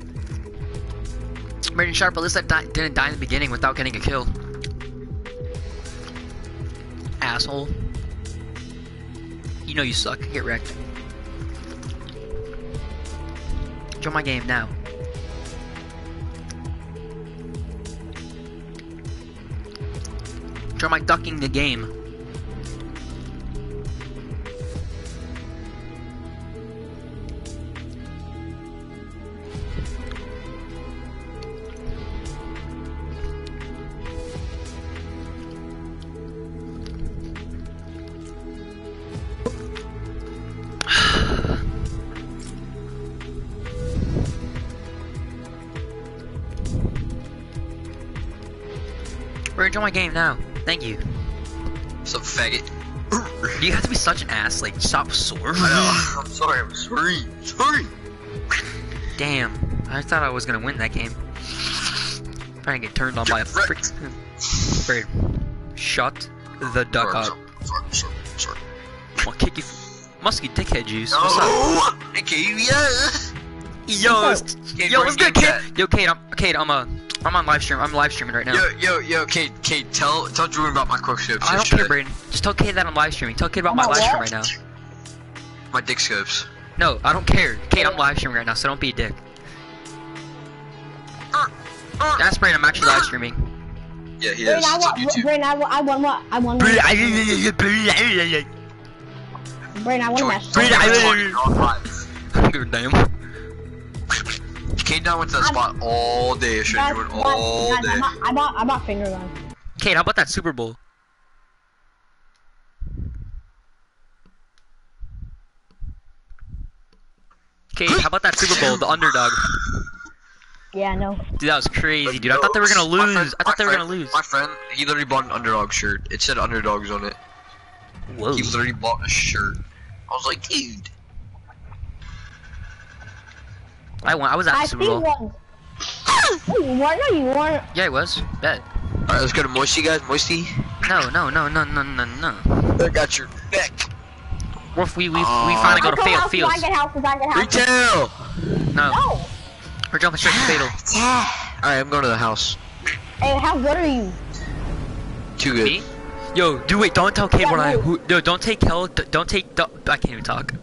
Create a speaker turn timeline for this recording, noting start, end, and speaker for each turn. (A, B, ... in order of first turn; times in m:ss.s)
0:01.7-0:04.4 A
0:07.2-0:07.9 A
0:09.6-0:10.8 A
0:14.0-0:14.7 A
0:20.8-0:21.9 A
0:49.5-0:51.4 A
0:52.0-0:53.6 B
0:53.6-0:56.1 A
0:55.6-0:57.9 B
0:59.1-1:01.2 A
1:02.6-1:04.2 A
1:03.2-1:03.9 B
1:04.7-1:07.3 A
1:06.8-1:08.6 B
1:09.2-1:11.6 A
1:11.1-1:13.3 B
1:13.9-1:18.7 A
1:14.0-1:14.4 C
1:14.8-1:15.6 B
1:18.5-1:22.0 B
1:21.4-1:24.5 A
1:23.7-1:24.3 C
1:25.7-1:26.5 B
1:26.8-1:29.2 A
1:31.3-1:32.2 B
1:32.1-1:33.5 A
1:34.2-1:35.3 B
1:34.4-1:37.4 C
1:36.6-1:38.5 A
1:39.8-1:41.2 C
1:40.1-1:41.9 B
1:40.5-1:41.6 A
1:42.3-1:43.1 A
1:44.7-1:48.1 B
1:46.7-1:49.3 C
1:49.8-1:50.8 A
1:57.7-1:59.6 A
1:57.9-1:58.8 B
1:59.4-1:59.7 B
2:00.7-2:01.2 C
2:01.4-2:04.2 A
2:02.0-2:07.2 B
2:08.1-2:08.6 A
2:08.3-2:10.9 B
2:14.0-2:15.0 A
2:14.5-2:15.4 C
2:16.4-2:17.7 C
2:17.7-2:18.6 A
2:19.1-2:20.8 B
2:20.8-2:22.8 A
2:22.8-2:23.9 B
2:24.7-2:26.7 A
2:25.1-2:25.9 B
2:25.7-2:27.6 C
2:27.3-2:28.5 B
2:28.7-2:29.0 A
2:28.9-2:29.3 C
2:29.9-2:30.8 A
2:30.2-2:32.6 B
2:33.2-2:34.2 C
2:35.4-2:35.8 B
2:35.5-2:40.5 A
2:37.4-2:37.9 C